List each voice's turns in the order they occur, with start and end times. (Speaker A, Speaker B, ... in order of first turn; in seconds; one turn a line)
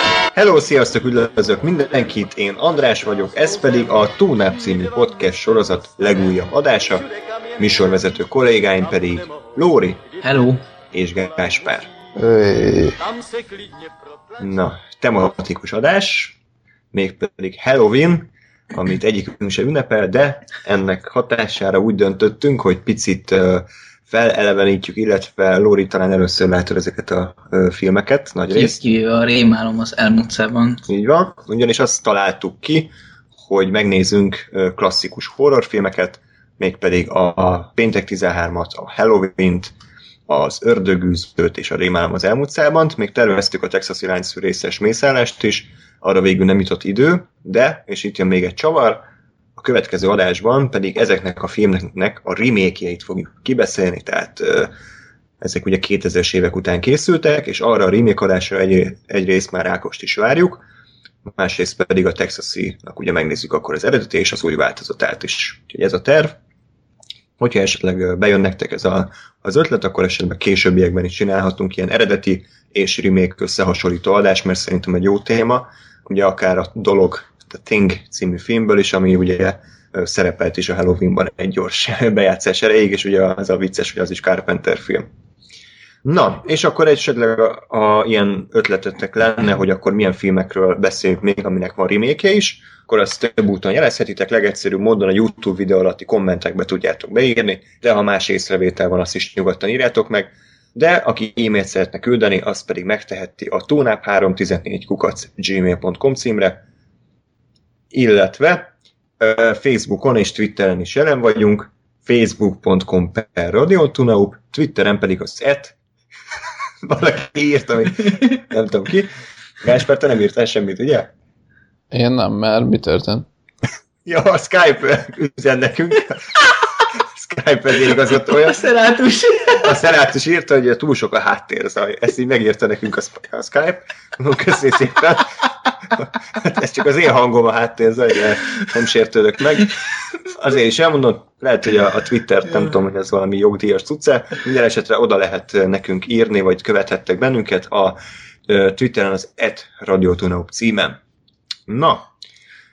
Speaker A: 0.3-7.0
Speaker B: 3.0-6.3
Speaker B: 6.9-10.4
Speaker A: 7.6-10.0
Speaker C: 10.2-10.6
Speaker A: 10.9-11.9
Speaker B: 11.2-12.0
Speaker D: 12.1-13.0
Speaker B: 12.8-14.4
Speaker A: 14.4-16.4
Speaker A: 16.9-28.8
Speaker C: 28.5-30.9
Speaker A: 30.9-39.7
Speaker A: 40.3-49.0
Speaker A: 49.6-54.7
Speaker A: 55.4-60.6
Speaker A: 61.3-66.4
Speaker A: 67.4-85.1
Speaker A: 86.0-106.6
Speaker A: 107.9-115.7
Speaker A: 116.8-121.1
Speaker D: 121.9-123.2
Speaker A: 124.0-126.4
Speaker A: 127.1-128.7
Speaker C: 128.4-129.7
Speaker A: 129.6-151.0
Speaker A: 151.7-152.1